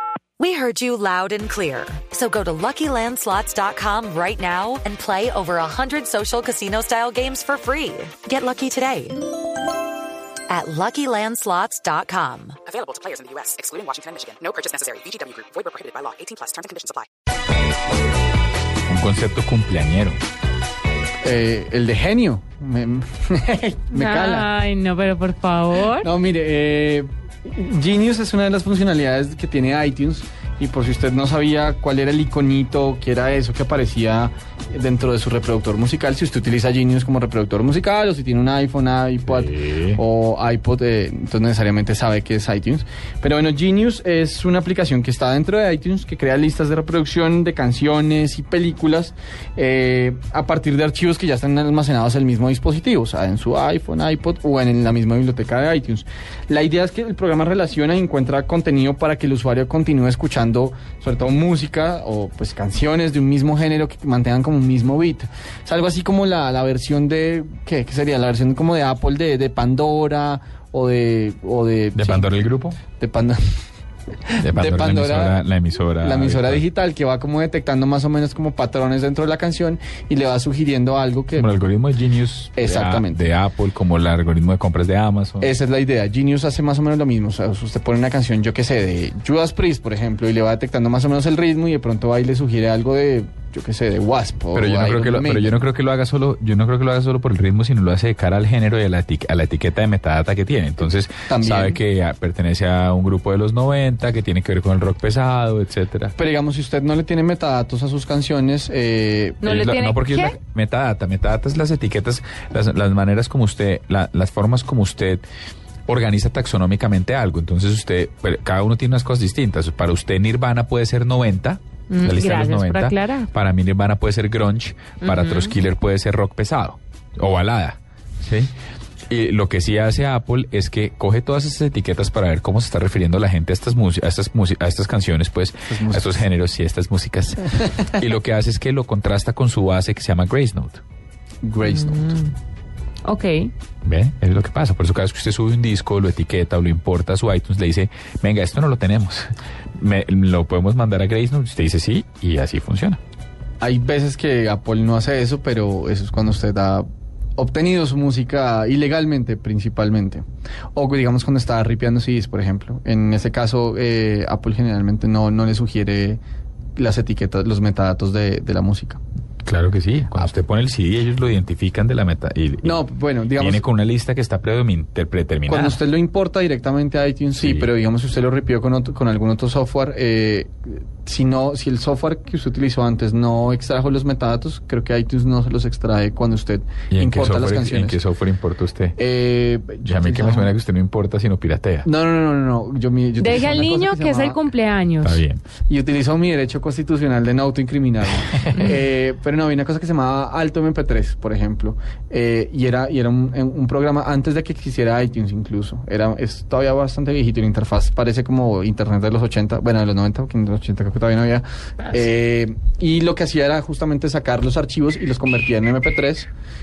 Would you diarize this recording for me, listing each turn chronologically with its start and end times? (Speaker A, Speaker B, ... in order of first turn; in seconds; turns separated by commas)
Speaker A: 0.4-9.2, Speaker A: 10.5-12.6, Speaker B: 12.7-17.1, Speaker C: 18.9-20.2, Speaker D: 21.2-24.5, Speaker E: 23.9-26.1, Speaker D: 25.8-72.3, Speaker C: 39.3-40.0, Speaker C: 72.0-72.8, Speaker D: 73.0-73.4, Speaker D: 74.3-75.4, Speaker C: 74.4-76.6, Speaker D: 76.0-81.6, Speaker C: 81.4-85.5, Speaker D: 82.6-83.3, Speaker D: 85.4-95.6, Speaker C: 94.5-106.1, Speaker D: 101.3-101.8, Speaker D: 106.2-109.5, Speaker E: 109.4-110.3, Speaker C: 109.4-115.2, Speaker C: 115.9-128.5, Speaker E: 121.9-123.3, Speaker E: 125.0-125.5, Speaker C: 129.1-140.8, Speaker D: 135.7-136.2, Speaker D: 141.4-142.2, Speaker E: 141.6-142.3, Speaker E: 143.1-143.5, Speaker C: 143.8-153.0, Speaker D: 153.6-156.9, Speaker D: 157.4-166.2, Speaker D: 166.8-169.0, Speaker C: 169.4-172.8, Speaker D: 172.6-173.7, Speaker C: 173.4-175.8, Speaker D: 175.5-188.0, Speaker C: 177.4-177.7, Speaker C: 186.9-189.0, Speaker D: 189.0-190.5, Speaker C: 189.8-191.9, Speaker D: 191.8-194.4, Speaker E: 193.2-195.2, Speaker C: 195.0-195.4, Speaker D: 195.7-216.3